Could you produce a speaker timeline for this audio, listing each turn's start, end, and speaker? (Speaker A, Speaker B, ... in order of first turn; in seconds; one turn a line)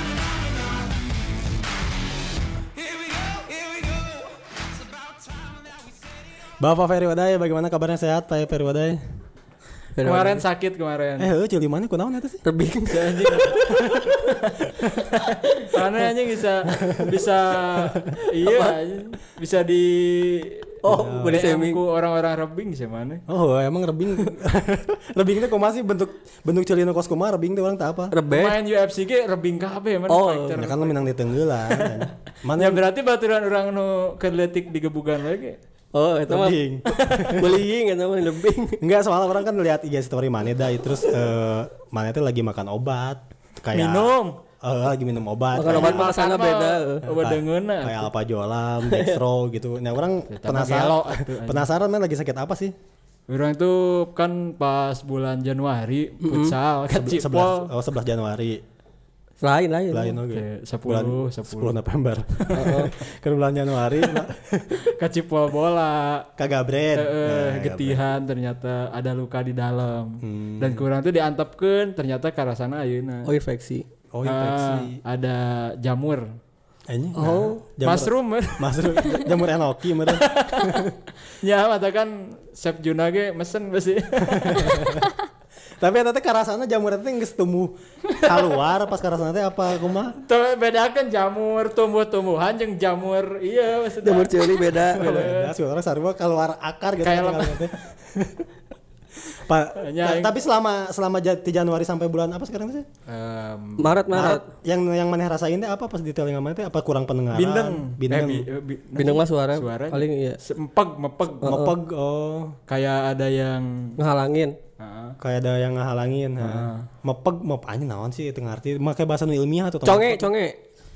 Speaker A: 6.6-9.0
Speaker B: 9.9-10.4
Speaker C: 10.0-11.3
Speaker A: 11.2-12.4
Speaker B: 12.4-13.7
Speaker C: 12.9-23.2
Speaker A: 13.6-14.2
Speaker A: 16.7-17.1
Speaker B: 18.4-18.8
Speaker B: 20.8-21.8
Speaker A: 20.9-21.4
Speaker A: 23.3-28.1
Speaker B: 28.1-28.6
Speaker C: 28.3-31.1
Speaker B: 30.1-30.6
Speaker A: 30.5-32.8
Speaker C: 32.5-35.6
Speaker B: 35.9-38.8
Speaker A: 36.3-37.6
Speaker A: 38.8-46.1
Speaker C: 43.7-44.4
Speaker B: 45.5-47.0
Speaker C: 45.6-48.1
Speaker A: 47.0-52.7
Speaker B: 48.9-49.2
Speaker C: 50.3-51.7
Speaker C: 53.3-57.7
Speaker B: 56.2-56.5
Speaker A: 56.9-58.6
Speaker B: 59.4-60.2
Speaker A: 59.9-64.9
Speaker C: 60.3-61.8
Speaker C: 62.4-62.9
Speaker B: 62.5-62.9
Speaker C: 64.8-66.3
Speaker A: 66.4-68.0
Speaker C: 66.9-73.3
Speaker A: 70.2-70.8
Speaker B: 73.2-73.8
Speaker A: 74.1-75.0
Speaker C: 74.2-76.3
Speaker A: 76.9-81.0
Speaker B: 77.1-77.6
Speaker C: 77.8-79.3
Speaker C: 80.1-85.0
Speaker A: 84.2-85.1
Speaker A: 85.8-90.2
Speaker C: 88.1-88.4
Speaker C: 90.2-95.5
Speaker B: 94.0-95.3
Speaker A: 94.9-98.5
Speaker C: 97.0-97.7
Speaker A: 99.2-102.8
Speaker C: 99.8-100.3
Speaker C: 103.1-104.0
Speaker B: 103.8-104.5
Speaker A: 104.1-108.5
Speaker C: 107.3-111.6
Speaker B: 108.9-110.4
Speaker A: 111.4-112.6
Speaker B: 111.4-111.7
Speaker C: 112.7-114.0
Speaker B: 114.0-114.6
Speaker C: 114.8-115.2
Speaker A: 115.2-120.3
Speaker C: 116.4-116.9
Speaker B: 119.8-120.6